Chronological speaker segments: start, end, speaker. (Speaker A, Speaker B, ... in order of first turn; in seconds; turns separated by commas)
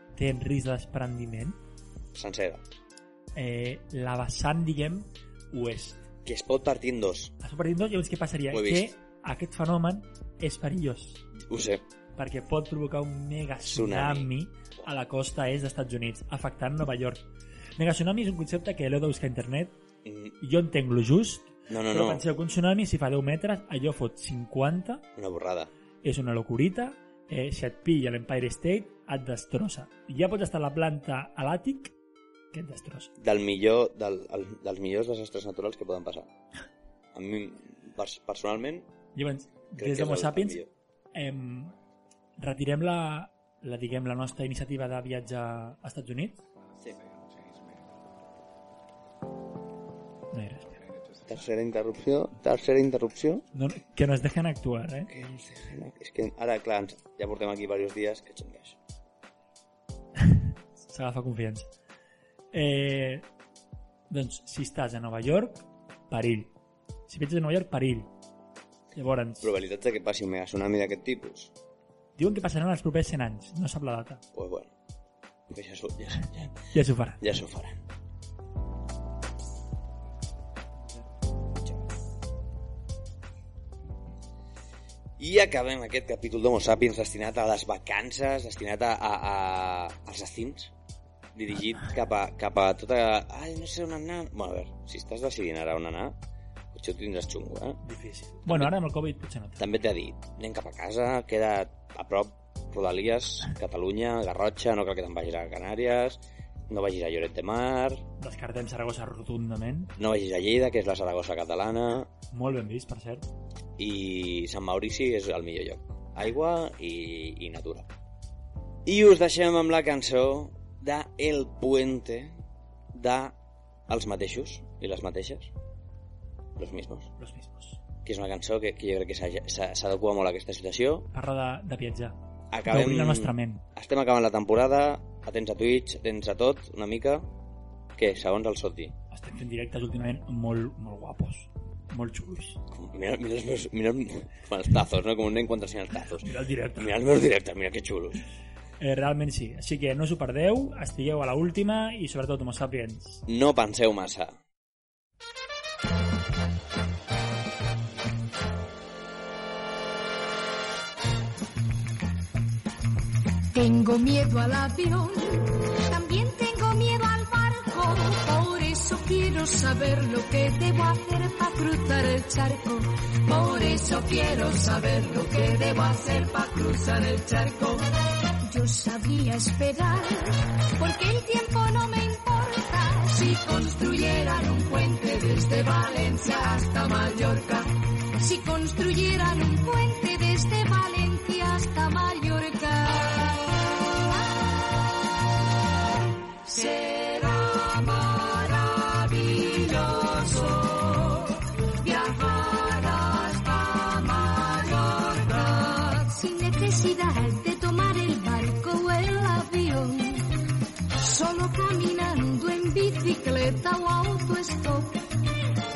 Speaker A: 0.1-1.6, Speaker B: 2.1-2.6, Speaker A: 3.4-6.0, Speaker B: 6.2-7.3, Speaker A: 7.4-11.2, Speaker B: 8.5-8.9, Speaker B: 11.5-11.8, Speaker A: 12.2-17.3, Speaker B: 13.6-14.9, Speaker A: 17.8-19.8, Speaker B: 20.1-20.4, Speaker A: 20.4-25.0, Speaker B: 21.7-22.2, Speaker B: 25.2-25.7, Speaker A: 26.0-31.9, Speaker A: 32.5-33.1, Speaker B: 33.2-36.3, Speaker B: 37.1-38.9, Speaker A: 39.1-40.6, Speaker B: 39.8-40.7, Speaker A: 41.1-41.8, Speaker A: 42.4-46.4, Speaker A: 50.3-50.9, Speaker B: 51.2-53.5, Speaker A: 53.5-55.1, Speaker B: 55.1-58.8, Speaker A: 60.2-61.7, Speaker A: 62.5-63.3, Speaker A: 64.1-66.5, Speaker A: 67.1-68.1, Speaker A: 68.9-69.5, Speaker B: 69.4-71.5, Speaker A: 72.2-74.2, Speaker B: 74.3-74.7, Speaker B: 75.5-76.7, Speaker A: 76.7-77.2, Speaker B: 77.2-77.8, Speaker B: 85.2-90.7, Speaker B: 91.3-96.2, Speaker B: 96.7-97.8, Speaker A: 97.8-99.7, Speaker B: 98.5-98.7, Speaker B: 99.6-108.0, Speaker A: 108.2-109.9, Speaker B: 110.0-112.1, Speaker A: 112.3-113.2, Speaker B: 113.8-117.9, Speaker B: 118.9-122.4, Speaker B: 122.9-123.4, Speaker B: 123.9-125.5, Speaker B: 126.6-127.1, Speaker A: 127.2-127.8, Speaker B: 128.0-131.1, Speaker A: 131.1-132.2, Speaker B: 132.5-137.3, Speaker A: 132.7-133.7, Speaker B: 138.0-138.9, Speaker A: 139.1-142.6, Speaker B: 142.7-148.2, Speaker A: 146.2-147.0, Speaker A: 148.8-153.2, Speaker B: 153.3-154.4, Speaker C: 163.5-195.2, Speaker C: 196.4-215.1